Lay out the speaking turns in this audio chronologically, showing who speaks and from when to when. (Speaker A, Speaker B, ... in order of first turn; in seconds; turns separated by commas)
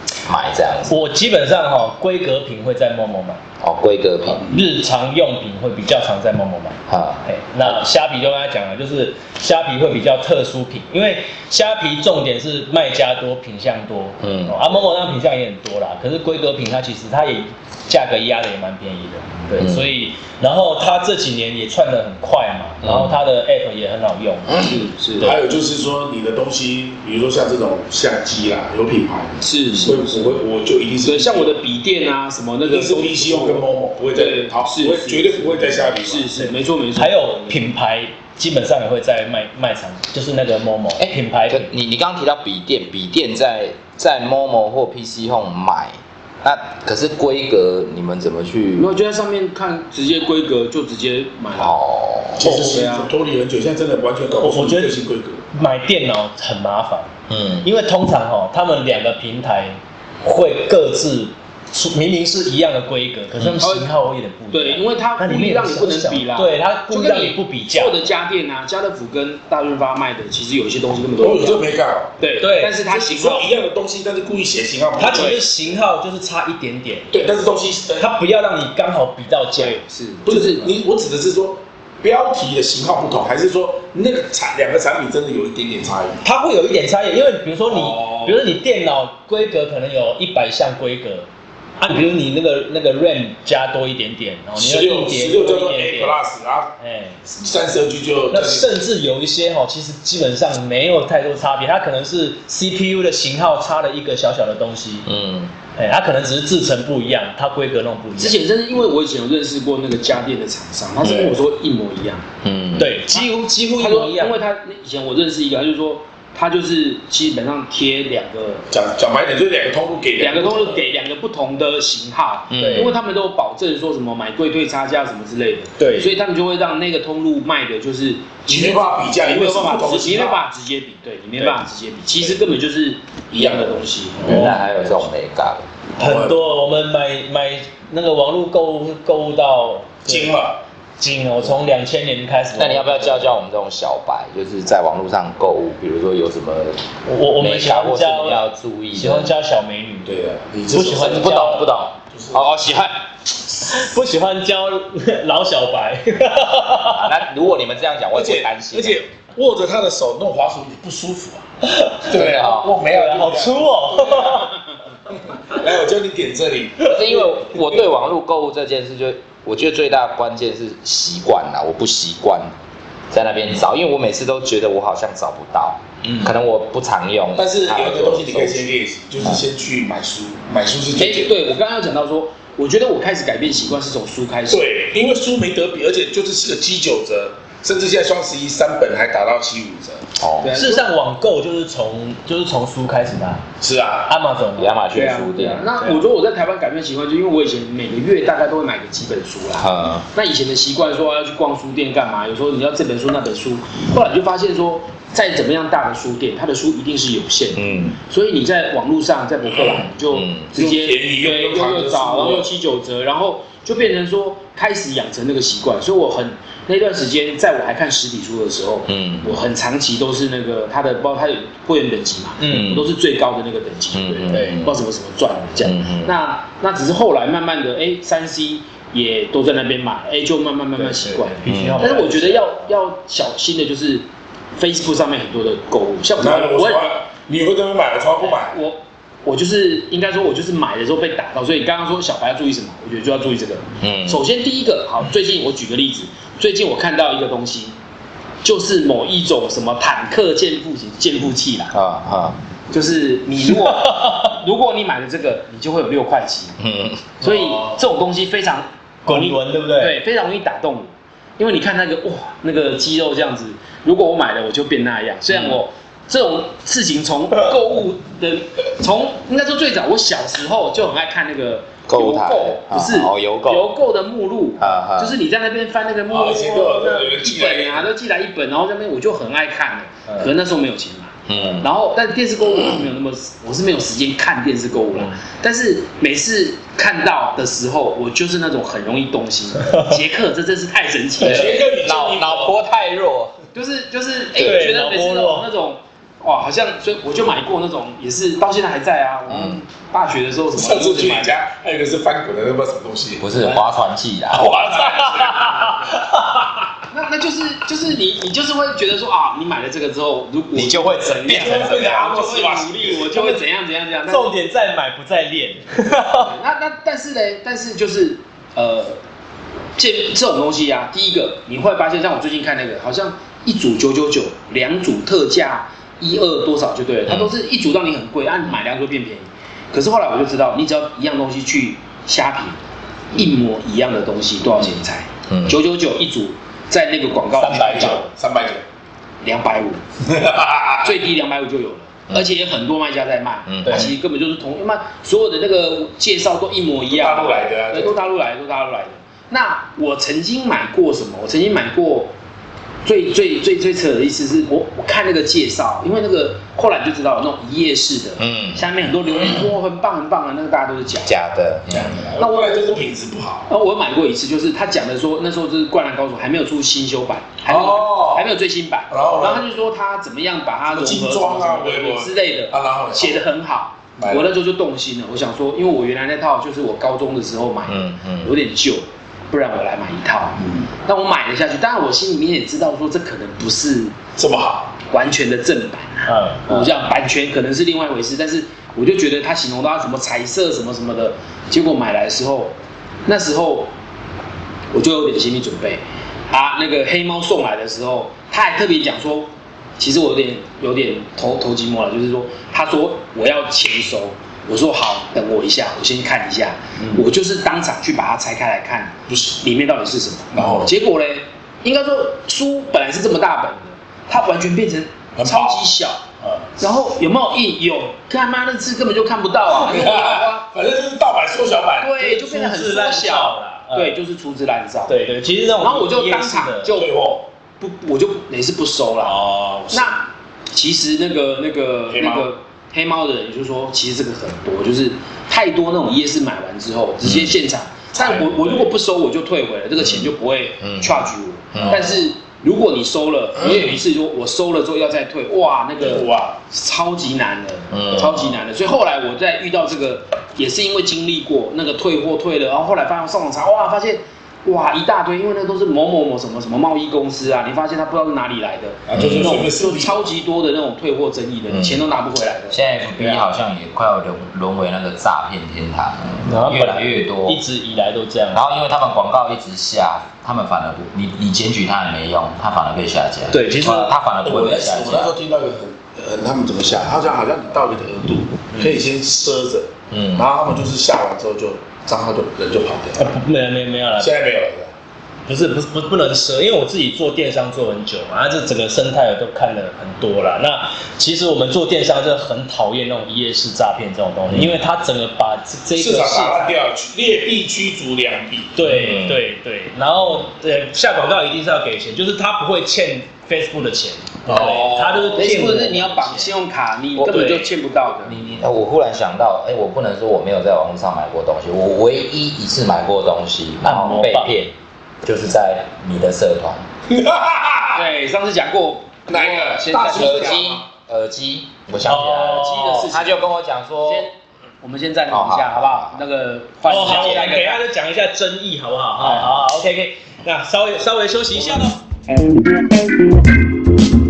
Speaker A: 0.2-1.0, Speaker B: 0.9-3.4, Speaker A: 3.6-4.5, Speaker B: 4.4-24.6, Speaker A: 6.9-7.8, Speaker A: 14.2-14.8, Speaker A: 19.6-19.9, Speaker A: 22.8-23.2, Speaker C: 24.6-25.4, Speaker D: 25.2-31.6, Speaker C: 29.4-30.4, Speaker C: 31.0-37.6, Speaker D: 32.6-36.3, Speaker B: 36.4-41.7, Speaker A: 41.0-48.9, Speaker C: 48.8-51.8, Speaker A: 51.5-52.5, Speaker D: 52.4-55.4, Speaker C: 52.4-53.1, Speaker B: 54.4-55.0, Speaker B: 55.5-57.1, Speaker A: 57.3-57.7, Speaker B: 57.6-68.0, Speaker C: 63.6-63.9, Speaker C: 64.5-71.6, Speaker D: 71.2-72.1, Speaker C: 72.2-73.5, Speaker B: 72.4-72.8, Speaker D: 72.8-75.4, Speaker B: 75.0-77.1, Speaker C: 75.0-75.4, Speaker D: 77.1-78.1, Speaker B: 78.0-79.8, Speaker C: 79.6-80.7, Speaker D: 80.3-86.2, Speaker B: 86.2-91.3, Speaker D: 87.7-88.4, Speaker B: 91.8-96.2, Speaker D: 94.6-96.7, Speaker B: 96.8-97.2, Speaker D: 97.2-98.7, Speaker B: 98.3-105.1, Speaker A: 105.0-105.5, Speaker B: 105.8-108.4, Speaker C: 108.2-112.3, Speaker A: 112.4-113.0, Speaker B: 112.8-114.4, Speaker C: 113.1-118.7, Speaker D: 118.7-120.8, Speaker C: 120.2-134.6, Speaker A: 122.5-123.0, Speaker B: 122.6-122.9, Speaker B: 125.8-126.1, Speaker D: 128.5-130.4, Speaker D: 133.4-133.8, Speaker A: 134.3-135.7, Speaker B: 134.3-134.6, Speaker B: 136.0-140.4, Speaker D: 136.0-136.4, Speaker D: 140.1-140.6, Speaker B: 141.0-143.3, Speaker A: 142.6-146.8, Speaker B: 147.1-148.4, Speaker A: 147.4-149.3, Speaker B: 148.9-150.1, Speaker D: 150.1-151.6, Speaker B: 150.7-151.7, Speaker A: 150.9-153.6, Speaker D: 152.1-152.4, Speaker B: 153.6-157.1, Speaker A: 156.9-159.0, Speaker D: 158.1-161.5, Speaker B: 161.6-162.1, Speaker D: 162.1-164.5, Speaker A: 162.1-162.7, Speaker B: 162.9-164.5, Speaker D: 165.1-167.7, Speaker A: 166.8-172.5, Speaker A: 173.1-178.7, Speaker D: 177.4-181.3, Speaker C: 181.0-184.6, Speaker D: 184.5-190.1, Speaker A: 190.2-190.5, Speaker C: 190.4-190.9, Speaker B: 190.5-193.4, Speaker D: 193.6-194.1, Speaker B: 194.1-194.7, Speaker A: 194.6-195.7, Speaker C: 194.9-234.1, Speaker A: 199.6-200.1, Speaker A: 207.5-208.0, Speaker A: 210.1-210.5, Speaker D: 210.6-212.5, Speaker A: 218.9-219.4, Speaker B: 222.4-222.8, Speaker A: 222.5-222.9, Speaker A: 223.9-224.8, Speaker B: 224.3-224.6, Speaker A: 225.6-226.1, Speaker B: 230.8-232.6, Speaker A: 231.5-231.9, Speaker C: 234.6-236.9, Speaker D: 236.2-238.6, Speaker C: 238.2-247.8, Speaker A: 243.8-244.2, Speaker C: 248.4-251.7, Speaker A: 251.7-252.4, Speaker C: 252.7-256.6, Speaker B: 253.5-254.3, Speaker A: 256.6-257.1, Speaker B: 257.2-257.8, Speaker C: 257.2-291.7, Speaker B: 259.1-260.0, Speaker A: 265.3-265.6, Speaker A: 271.9-273.8, Speaker A: 274.6-275.2, Speaker D: 276.1-277.9, Speaker A: 281.3-281.7, Speaker B: 289.6-289.9, Speaker D: 291.2-292.6, Speaker A: 291.2-293.4, Speaker C: 293.6-301.4, Speaker B: 294.4-295.5, Speaker A: 299.3-299.6, Speaker D: 300.5-303.3, Speaker A: 303.2-304.7, Speaker D: 304.3-306.0, Speaker B: 304.8-306.6, Speaker C: 306.9-314.4, Speaker A: 310.5-312.0, Speaker D: 311.3-313.2, Speaker B: 313.1-313.4, Speaker B: 314.1-316.3, Speaker C: 316.0-319.0, Speaker C: 319.8-332.6, Speaker C: 333.1-338.1, Speaker A: 335.3-335.6, Speaker D: 337.4-338.6, Speaker C: 339.2-339.8, Speaker D: 340.0-340.9, Speaker C: 340.8-352.1, Speaker A: 343.5-343.9, Speaker B: 343.7-343.9, Speaker D: 346.9-348.0, Speaker C: 352.9-361.2, Speaker A: 358.2-358.6, Speaker A: 361.1-362.0, Speaker D: 361.7-363.5, Speaker C: 362.2-362.7, Speaker C: 363.5-383.9, Speaker D: 367.5-368.3, Speaker D: 368.9-369.5, Speaker D: 370.7-373.3, Speaker D: 374.0-374.3, Speaker A: 377.7-378.4, Speaker D: 380.4-380.7, Speaker D: 384.2-384.8, Speaker C: 384.9-392.5, Speaker B: 386.1-386.7, Speaker C: 393.1-393.7, Speaker C: 394.7-416.0, Speaker D: 409.1-409.4, Speaker D: 410.4-410.7, Speaker D: 415.2-415.7, Speaker D: 416.2-416.5, Speaker C: 416.6-420.5, Speaker D: 419.5-421.9, Speaker C: 421.8-425.0, Speaker B: 422.0-424.0, Speaker B: 424.9-426.7, Speaker C: 425.6-426.9, Speaker D: 426.7-427.2, Speaker C: 427.6-429.2, Speaker B: 429.1-429.9, Speaker C: 429.7-463.3, Speaker D: 431.9-432.3, Speaker A: 437.0-437.4, Speaker D: 437.9-438.7, Speaker A: 440.6-441.9, Speaker D: 441.6-442.0, Speaker D: 445.8-446.4, Speaker A: 447.7-448.4, Speaker D: 458.9-460.1, Speaker A: 459.0-459.4, Speaker A: 461.5-461.9, Speaker A: 462.5-467.4, Speaker B: 466.2-468.4, Speaker A: 468.3-475.1, Speaker B: 473.3-474.0, Speaker D: 474.2-483.1, Speaker B: 478.5-478.8, Speaker A: 479.9-480.3, Speaker B: 483.0-484.1, Speaker D: 484.0-484.7, Speaker B: 485.3-496.5, Speaker D: 495.8-498.6, Speaker B: 498.6-506.3, Speaker A: 498.6-499.2, Speaker D: 504.3-505.2, Speaker C: 504.4-508.2, Speaker A: 507.0-507.3, Speaker B: 507.1-507.5, Speaker A: 508.1-516.6, Speaker B: 513.6-514.3, Speaker D: 516.9-517.9, Speaker C: 517.8-520.4, Speaker D: 519.1-520.6, Speaker A: 519.9-524.1, Speaker B: 521.8-522.9, Speaker C: 522.4-523.2, Speaker C: 523.9-527.6, Speaker A: 525.1-526.0, Speaker B: 526.7-531.8, Speaker A: 526.7-527.4